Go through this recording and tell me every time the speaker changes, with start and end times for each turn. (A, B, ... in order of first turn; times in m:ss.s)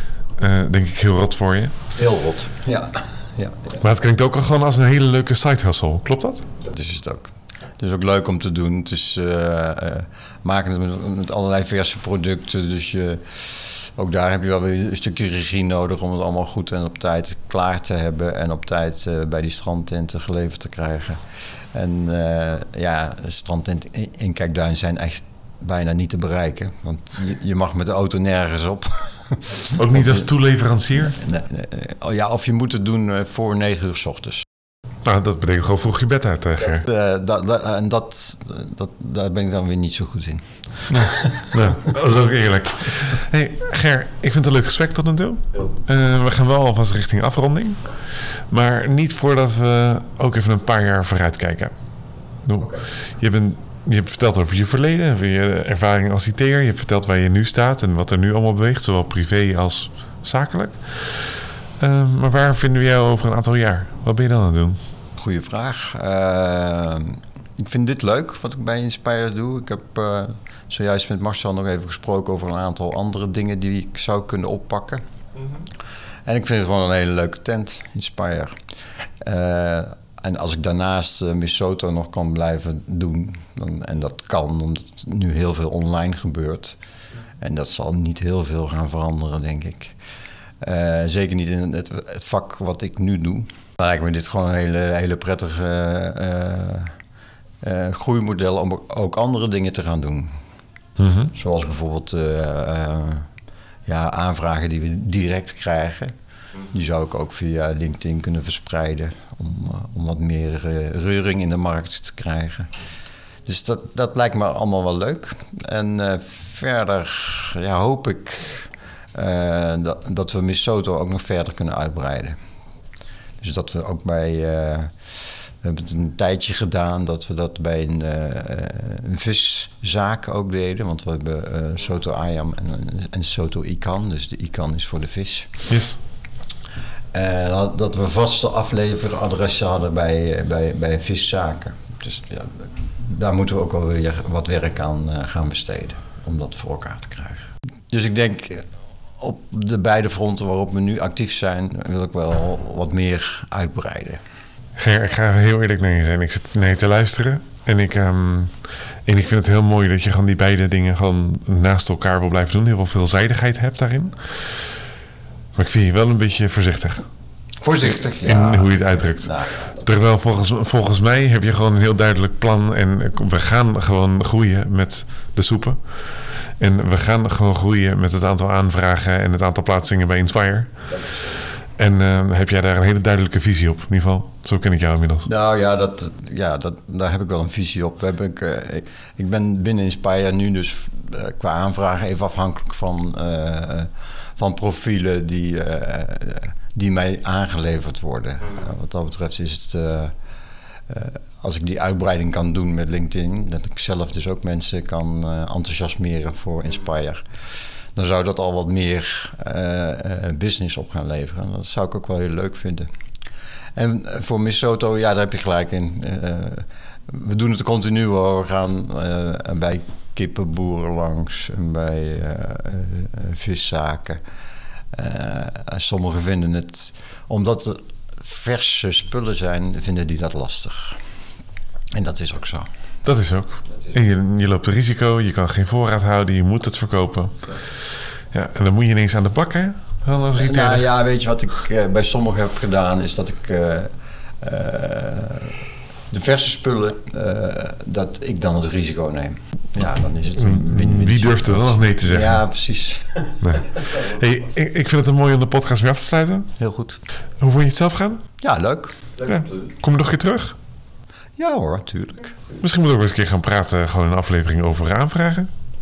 0:00.4-0:01.7 A
0:01.9-0:03.8 B
0:03.8-0:06.5 A
0:06.6-0:21.2 B
0:21.7-0:30.2 B
0:29.7-0:31.2 A
0:31.1-0:34.4 B
0:35.0-0:36.8 A
0:36.6-0:41.6 B
0:40.9-0:51.7 A
0:52.4-1:04.8 A
1:05.2-1:15.0 B
1:16.2-1:18.6 B
1:19.2-1:26.8 B
1:27.4-1:30.0 B
1:30.6-1:37.0 B
1:37.6-1:40.3 B
1:41.0-1:41.3 A
1:41.3-1:43.3 B
1:43.8-1:46.1 B
1:46.7-1:52.7 B
1:53.4-2:02.4 B
2:03.4-2:15.6 B
2:15.7-2:16.0 A
2:17.1-2:28.7 B
2:29.2-2:34.2 B
2:34.8-2:44.6 A
2:45.5-2:47.1 A
2:47.6-2:49.8 B
2:48.2-3:00.7 A
3:00.9-3:01.2 B
3:01.8-3:05.3 A
3:05.2-3:20.1 B
3:20.9-3:27.3 B
3:27.9-3:32.9 B
3:33.8-3:44.2 B
3:44.9-3:51.0 B
3:51.9-3:52.7 B
3:53.0-3:57.6 A
3:58.3-4:00.9 A
4:00.3-4:05.6 B
4:06.1-4:13.4 B
4:10.4-4:12.4 A
4:13.4-4:16.5 A
4:16.6-4:17.0 B
4:17.4-4:18.2 A
4:18.4-4:19.5 B
4:19.2-4:20.6 A
4:21.4-4:22.4 B
4:22.6-4:25.5 A